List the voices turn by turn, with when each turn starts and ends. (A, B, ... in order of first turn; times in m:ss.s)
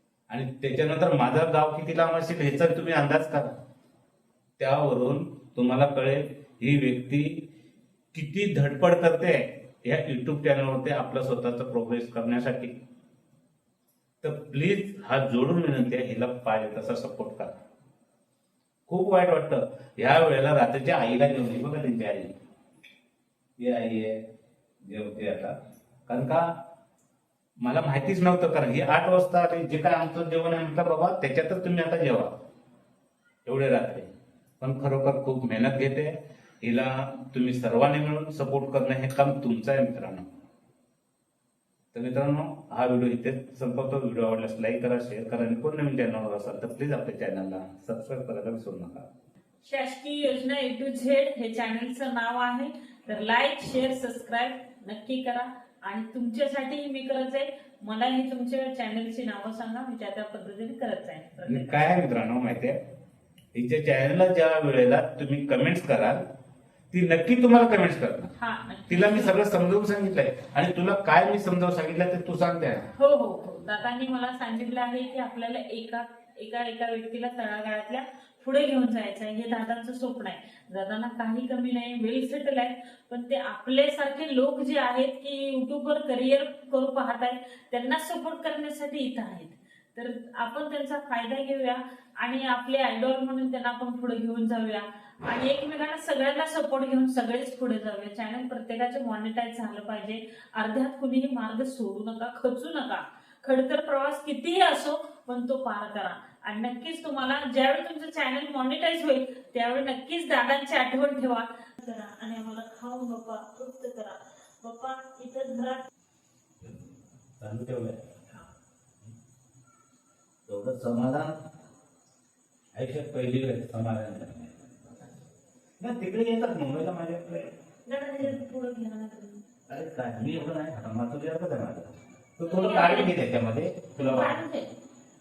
0:00.3-0:03.5 A
0:04.6-0:07.4 A
0:08.1-0:12.7 A
0:14.2-0:17.5 A
0:18.9-0:22.3 A
0:23.6-0:24.2 A
0:24.8-0:25.6 A
0:26.1-0:26.5 A
0:27.6-0:32.3 A
0:33.4-0:40.3 A
0:41.9-0:49.1 A
0:49.6-1:01.9 B
1:01.4-1:02.8 A
1:03.5-1:06.2 A
1:06.9-1:08.3 A
1:08.4-1:09.4 B
1:08.9-1:12.9 A
1:12.9-1:55.9 B
1:57.4-1:58.0 A
2:00.5-2:01.4 A
2:02.8-2:04.7 A
2:05.8-2:07.5 A
2:07.8-2:09.4 B
2:09.7-2:14.4 A
2:12.4-2:13.1 B
2:14.0-2:14.7 B